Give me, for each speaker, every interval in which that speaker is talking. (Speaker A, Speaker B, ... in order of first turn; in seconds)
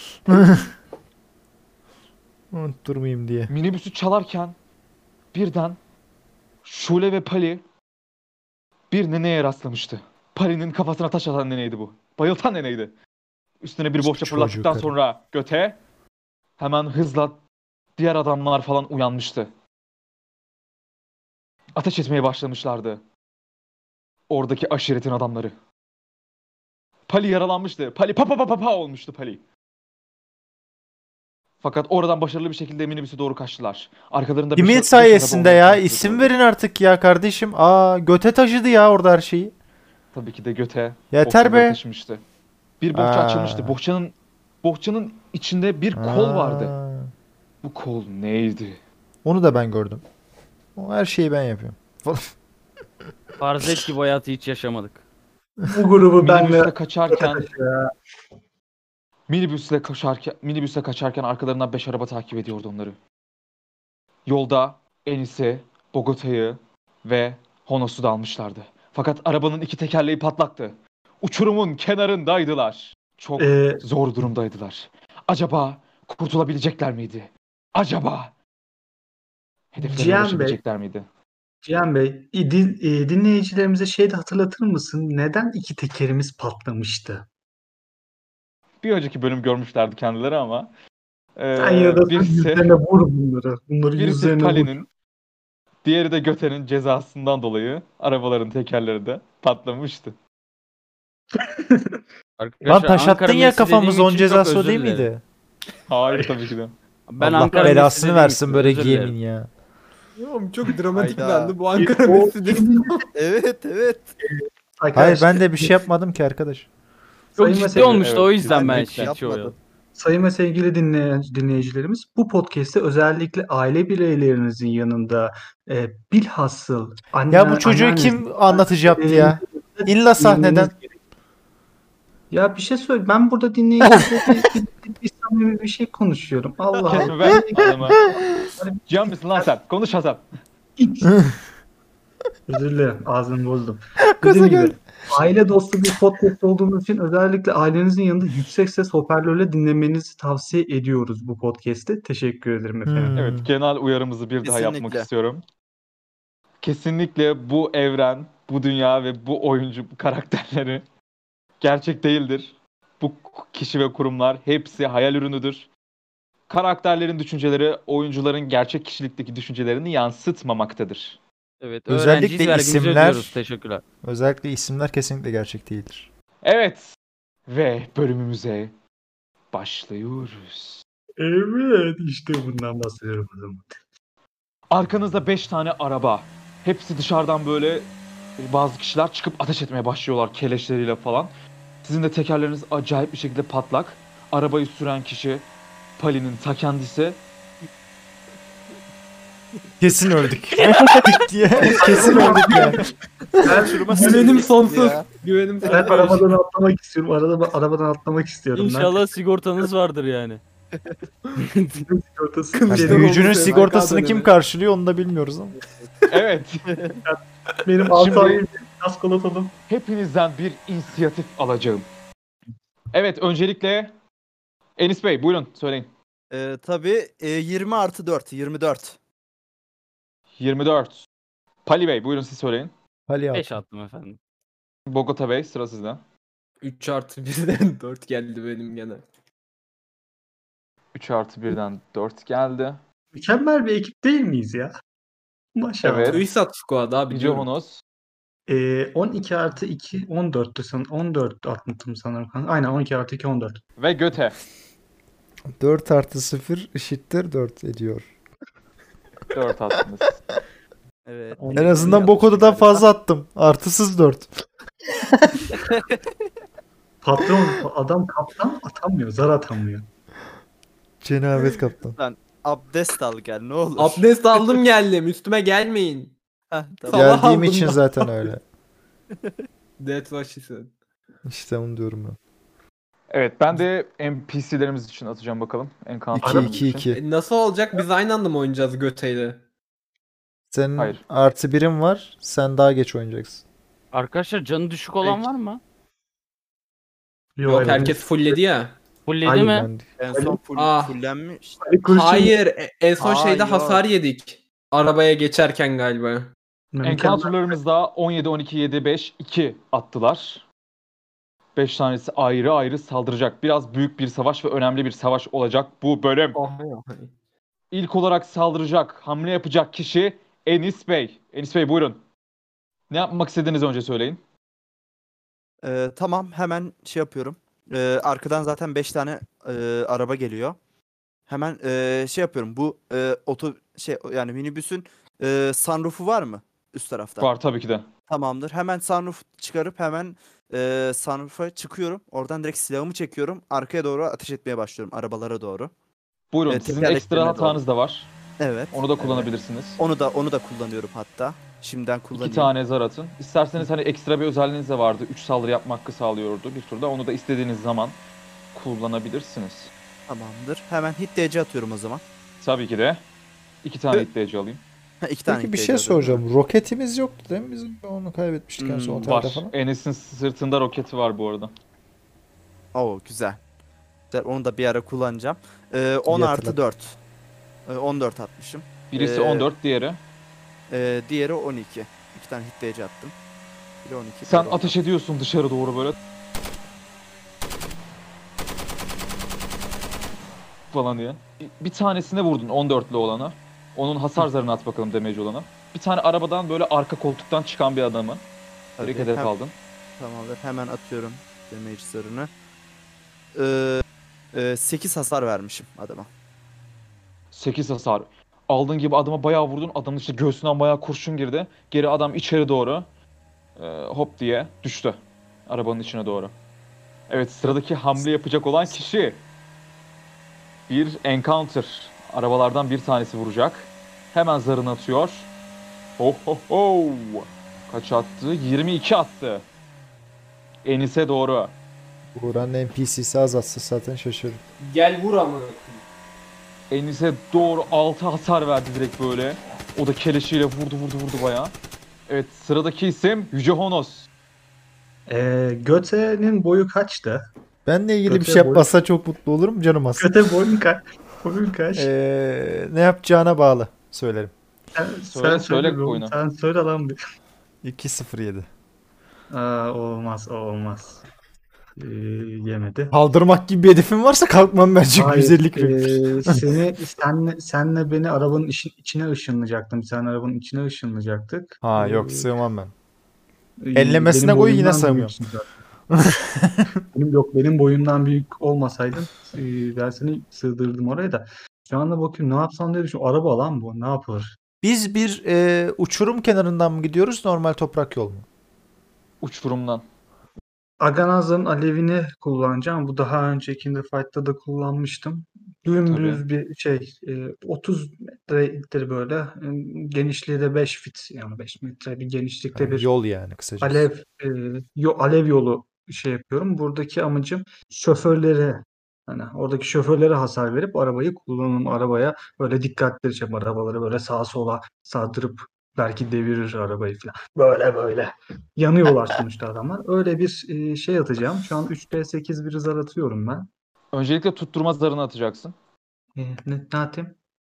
Speaker A: 0.2-0.7, 2.5-3.5, 14.0-14.9, 34.5-39.5, 41.1-41.8, 42.9-43.8, 45.9-47.1, 49.2-50.0, 50.8-52.3, 102.6-105.2, 107.2-109.5, 114.9-116.7, 127.3-130.7, 144.1-145.1, 152.8-153.5, 171.9-173.4, 174.0-176.1, 199.8-202.8, 203.4-204.2, 212.7-215.6, 233.1-233.5, 255.5-258.1, 261.5-264.3, 271.0-272.0, 276.9-278.4, 281.2-282.2, 286.1-287.0, 290.5-293.4, 299.2-299.9, 365.3-369.5, 376.1-376.6, 432.1-434.4, 447.6-450.1, 451.8-454.3, 457.6-458.5, 462.9-466.4, 471.6-472.7, 473.8-475.1, 475.9-476.7, 484.6-488.2, 502.5-503.9
Speaker B: 3.5-4.6, 5.3-5.8, 6.6-7.6, 8.9-12.9, 13.6-15.8, 16.6-17.4, 18.0-19.5, 21.8-23.0, 24.3-25.5, 27.1-29.4, 31.6-36.3, 40.1-42.2, 42.8-46.8, 47.6-48.8, 56.2-57.4, 59.3-63.0, 64.2-78.3, 79.7-81.1, 88.8-90.7, 91.4-92.7, 94.0-94.9, 95.8-100.1, 105.9-106.8, 111.0-111.2, 117.7-118.4, 136.9-138.0, 138.9-140.3, 153.1-155.4, 156.6-160.8, 161.6-165.7, 166.5-171.2, 176.4-177.0, 177.5-178.7, 179.5-180.8, 184.7-191.3, 191.8-195.4, 196.0-197.2, 216.1-216.7, 218.0-218.4, 219.7-221.9, 222.9-223.9, 224.8-225.9, 230.4-231.1, 231.6-232.7, 234.9-236.0, 240.9-242.8, 245.8-246.2, 247.1-247.8, 253.8-254.4, 259.3-260.1, 283.1-286.9, 306.8-310.4, 311.6-316.4, 317.7-322.0, 322.9-324.2, 337.2-337.9, 346.3-348.1, 348.7-349.8, 352.1-358.0, 358.5-359.7, 362.4-363.0, 363.6-364.6, 369.0-371.5, 378.9-380.0, 384.2-386.0, 390.7-398.2, 398.8-399.5, 407.3-412.9, 413.6-416.3, 417.1-419.2, 420.7-425.3, 426.0-429.4, 430.6-431.5, 436.7-441.5, 442.1-444.1, 455.1-456.1, 489.2-489.9, 495.9-496.2, 523.9-525.5
Speaker C: 53.4-55.0, 102.4-105.1, 107.1-109.1, 117.4-119.5, 171.6-173.8, 208.5-210.4, 211.4-211.8, 233.3-234.2, 293.9-295.6, 299.1-299.7
Speaker D: 55.6-57.9, 73.4-73.8, 79.8-80.6, 81.6-87.3, 91.6-94.7, 101.3-102.0, 111.8-112.9, 114.2-115.8, 117.4-119.0, 119.9-131.0, 132.3-138.0, 138.6-138.8, 140.8-141.2, 142.5-153.3, 181.2-183.8, 201.8-202.8, 203.4-204.5, 205.7-208.9, 211.8-213.5, 217.0-219.6, 243.1-244.7, 245.6-246.2, 248.5-253.6, 261.4-262.1, 267.0-269.9, 286.2-286.6, 297.4-298.0, 299.2-299.5, 300.1-300.4, 301.6-302.4, 306.7-307.5, 445.1-447.2, 448.1-448.7, 450.0-451.9, 454.8-457.0, 459.3-461.0, 461.8-462.9, 464.9-472.3, 473.6-475.5, 476.9-484.4, 490.8-502.9, 503.6-523.5, 526.1-527.1
Speaker E: 110.2-113.0, 201.8-202.8, 203.9-206.3, 212.5-214.3, 236.6-239.0, 246.0-247.5, 273.8-276.1, 276.9-278.3, 279.8-280.7, 286.9-289.4, 297.5-298.8, 300.5-300.9, 301.9-306.3, 316.4-317.1, 434.6-435.8
Speaker F: 110.9-111.6, 113.1-114.1, 118.3-119.5, 136.8-137.1, 154.4-155.1, 203.9-205.1, 216.7-217.0, 226.3-229.0, 261.1-262.9, 265.6-266.0, 271.9-274.1, 276.5-277.3, 300.0-301.6, 303.0-303.9, 325.6-330.6, 331.3-337.3, 338.1-345.7, 346.5-347.6, 348.4-352.5, 360.1-362.0, 365.0-366.2, 368.6-369.0, 372.7-373.4, 374.1-377.0, 377.6-379.5, 380.7-383.1, 383.8-384.8, 398.8-399.3, 400.0-402.3, 403.4-406.1